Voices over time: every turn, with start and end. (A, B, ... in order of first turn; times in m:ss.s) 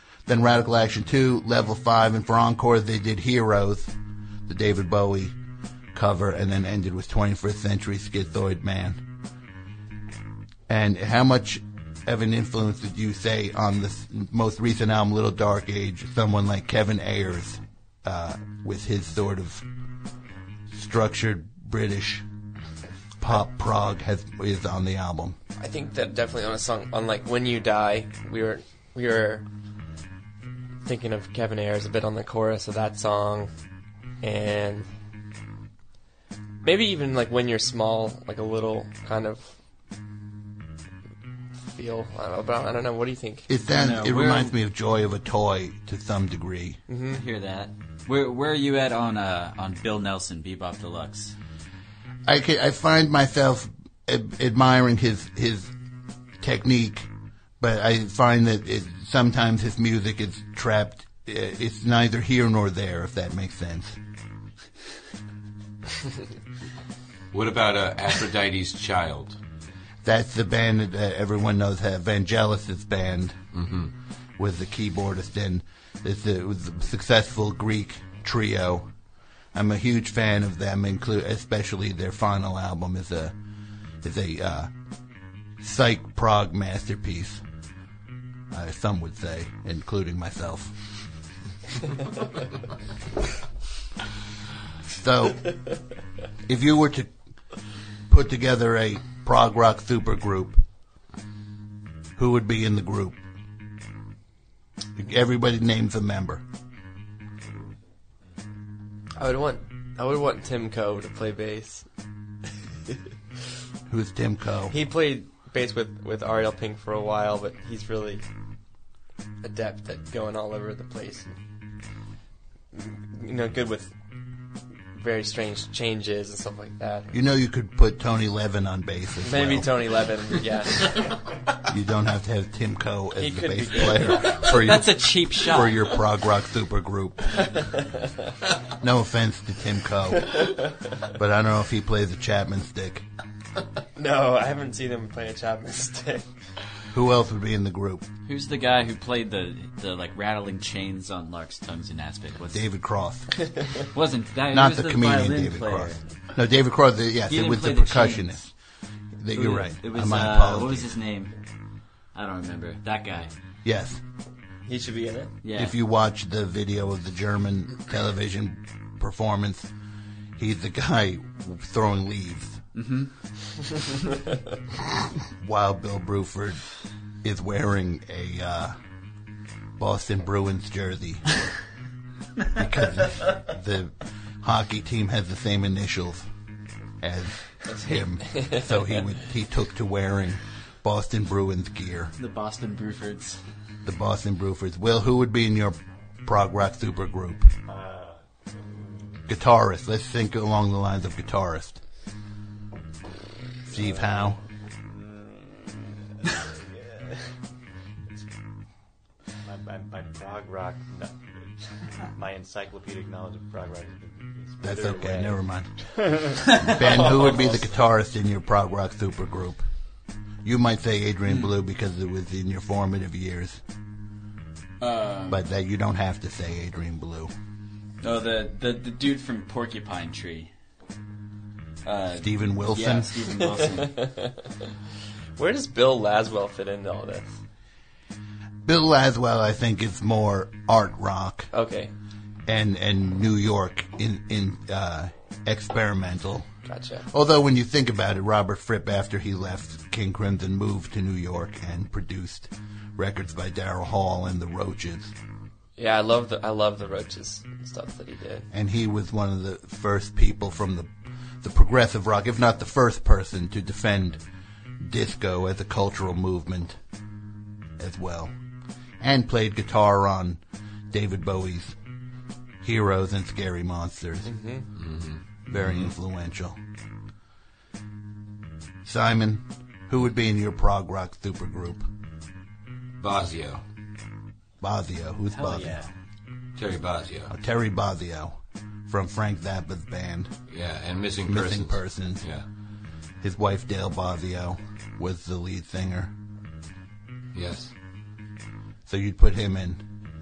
0:00.2-0:03.9 A
0:04.4-0:05.3 A
0:05.9-0:09.0 A
0:10.7-0:19.6 A
0:20.7-0:22.2 A
0:23.2-0:25.4 A
0:25.6-0:29.4 B
0:30.8-0:33.5 B
0:34.2-0:34.9 B
0:36.6-0:39.6 B
0:41.7-0:43.5 B
0:43.5-0:46.8 A
0:43.7-0:44.5 C
0:46.9-0:47.2 B
0:47.1-0:51.4 C
0:52.3-0:55.7 A
0:56.4-0:57.1 A
0:57.6-1:04.0 A
1:07.3-1:09.4 D
1:10.0-1:13.4 A
1:13.5-1:13.9 D
1:14.4-1:18.9 A
1:19.5-1:23.3 A
1:24.0-1:24.7 A
1:25.6-1:27.4 A
1:28.5-1:30.8 A
1:34.9-1:35.8 A
1:36.4-1:37.1 A
1:38.1-1:40.6 A
1:42.2-1:43.2 A
1:45.0-1:46.4 A
1:49.2-1:51.9 B
1:53.9-1:54.7 A
1:54.7-1:58.2 B
1:59.4-2:01.4 B
2:02.7-2:03.9 B
2:04.9-2:07.1 B
2:07.1-2:09.8 A
2:09.2-2:11.2 B
2:11.6-2:17.7 A
2:13.1-2:14.6 B
2:14.5-2:15.9 C
2:17.6-2:17.8 B
2:18.7-2:23.0 A
2:24.0-2:26.3 B
2:26.9-2:28.0 A
2:28.2-2:32.8 C
2:32.5-2:33.7 A
2:33.8-2:36.0 C
2:34.5-2:38.5 A
2:37.3-2:38.4 C
2:39.2-2:40.9 A
2:39.3-2:41.4 C
2:42.1-2:43.3 C
2:43.6-2:44.0 A
2:44.6-2:45.3 B
2:45.4-2:45.8 C
2:45.6-2:49.7 A
2:50.4-2:52.6 A
2:52.7-2:53.1 C
2:55.4-2:58.7 A
2:59.8-3:01.2 A
3:02.5-3:06.3 A
3:07.0-3:12.1 A
3:07.7-3:08.7 B
3:12.2-3:13.4 C
3:13.8-3:17.5 A
3:17.7-3:19.2 E
3:19.3-3:21.8 A
3:23.7-3:24.4 A
3:23.7-3:27.4 E
3:29.4-3:37.7 E
3:34.6-3:43.6 A
3:41.2-3:41.5 C
3:44.8-3:45.4 C
3:45.3-3:47.3 A
3:48.0-3:50.5 C
3:51.8-3:54.0 C
3:52.2-3:53.1 A
3:53.5-3:54.4 B
3:55.4-3:57.4 B
3:58.6-4:01.5 A
4:01.5-4:01.9 B
4:02.5-4:06.5 A
4:06.7-4:07.0 B
4:07.1-4:15.1 A
4:15.8-4:18.4 B
4:18.5-4:20.9 A
4:21.4-4:24.2 A
4:24.8-4:26.8 A
4:27.8-4:28.3 A
4:29.0-4:31.8 A
4:32.6-4:34.4 A
4:34.2-4:34.7 B
4:34.8-4:35.9 D
4:35.5-4:36.6 A
4:38.8-4:41.9 A
4:43.0-4:43.6 D
4:44.6-4:45.8 A
4:45.3-4:45.9 C
4:46.6-4:47.3 D
4:47.3-4:50.3 A
4:50.5-4:52.4 D
4:51.2-4:52.3 A
4:53.2-4:56.1 A
4:57.3-4:57.7 D
4:58.8-4:59.8 A